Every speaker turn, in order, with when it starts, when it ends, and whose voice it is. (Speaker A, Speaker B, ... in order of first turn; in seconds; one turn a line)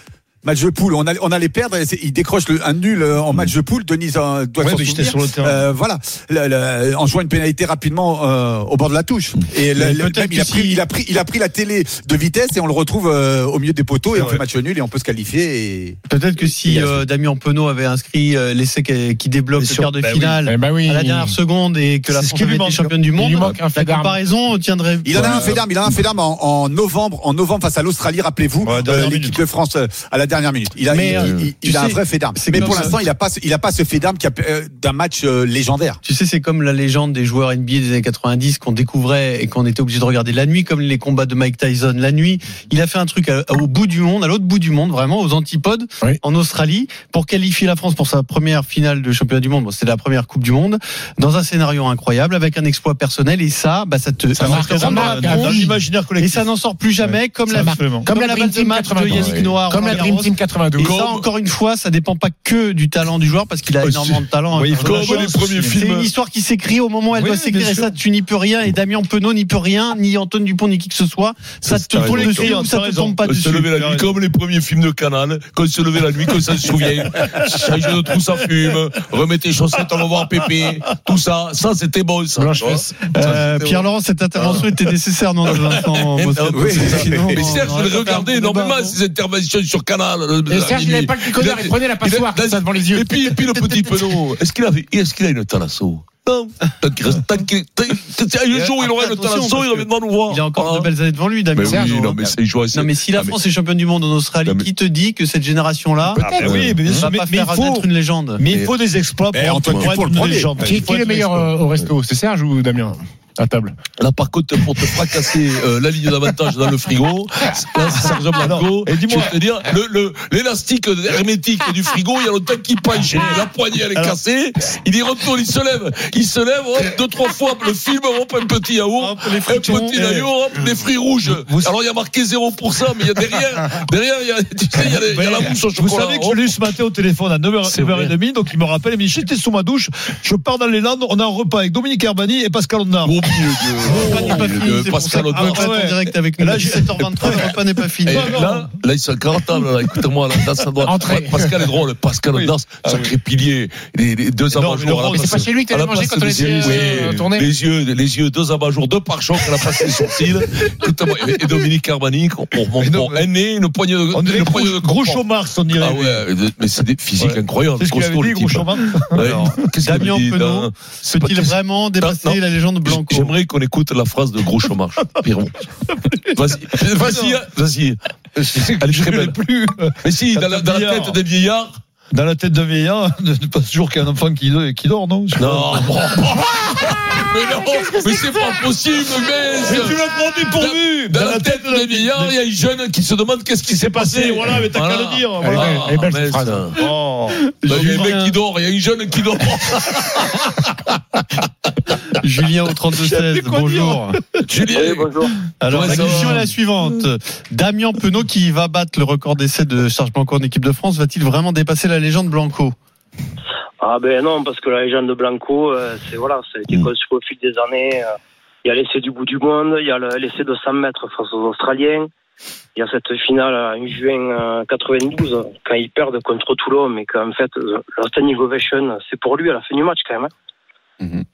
Speaker A: 0.4-16.0
Speaker B: 4.6-5.6
Speaker C: 9.7-10.8
Speaker B: 14.1-14.4
Speaker C: 16.1-25.6
Speaker B: 16.7-16.9
Speaker B: 19.6-20.4
Speaker D: 20.4-21.3
Speaker B: 22.1-22.9
Speaker D: 23.1-24.2
Speaker A: 25.0-36.0
Speaker B: 25.1-25.6
Speaker B: 28.6-29.4
Speaker C: 30.9-32.9
Speaker E: 31.1-31.4
Speaker C: 36.0-55.6
Speaker B: 54.4-56.5
Speaker D: 54.4-55.8
Speaker C: 56.2-73.7
Speaker B: 57.0-58.1
Speaker D: 57.5-61.0
Speaker E: 59.1-59.5
Speaker E: 60.8-61.2
Speaker E: 63.8-64.2
Speaker B: 64.5-65.8
Speaker E: 64.7-66.1
Speaker B: 67.1-68.0
Speaker B: 71.6-74.1
Speaker E: 72.0-72.5
Speaker E: 73.2-83.8
Speaker D: 82.3-83.0
Speaker C: 83.1-89.0
Speaker E: 84.4-84.7
Speaker E: 85.5-100.9
Speaker A: 86.5-87.5
Speaker D: 90.5-93.6
Speaker C: 98.5-106.2
Speaker E: 101.5-103.4
Speaker D: 101.6-102.0
Speaker D: 106.2-106.6
Speaker E: 106.2-106.8
Speaker B: 106.2-111.5
Speaker C: 107.0-108.4
Speaker A: 109.3-110.7
Speaker D: 110.6-113.7
Speaker E: 114.0-136.4
Speaker B: 117.9-119.3
Speaker B: 123.0-124.2
Speaker C: 129.0-130.1
Speaker B: 131.2-131.7
Speaker B: 134.8-144.5
Speaker E: 137.7-138.1
Speaker E: 143.0-145.7
Speaker C: 143.8-148.3
Speaker B: 145.1-148.7
Speaker E: 148.1-165.2
Speaker D: 150.8-151.5
Speaker B: 152.3-153.1
Speaker B: 154.5-155.5
Speaker D: 155.1-157.5
Speaker B: 156.6-157.1
Speaker B: 162.8-163.3
Speaker B: 164.1-166.2
Speaker E: 165.7-175.7
Speaker B: 167.2-169.5
Speaker C: 169.1-173.3
Speaker E: 176.3-178.0
Speaker B: 176.7-177.4
Speaker B: 178.3-181.2
Speaker E: 178.6-179.4
Speaker E: 180.0-181.7
Speaker B: 182.1-186.1
Speaker E: 185.3-190.0
Speaker B: 187.7-188.4
Speaker B: 189.5-192.4
Speaker E: 190.6-196.8
Speaker B: 193.7-195.9
Speaker D: 195.4-196.7
Speaker B: 196.7-197.4
Speaker C: 197.6-198.3
Speaker E: 197.7-200.7
Speaker C: 202.1-204.2
Speaker B: 203.0-204.0
Speaker E: 204.4-205.1
Speaker F: 204.7-205.3
Speaker C: 205.6-212.7
Speaker E: 205.7-206.5
Speaker B: 205.9-206.4
Speaker F: 213.8-218.1
Speaker F: 218.6-222.1
Speaker F: 222.8-230.3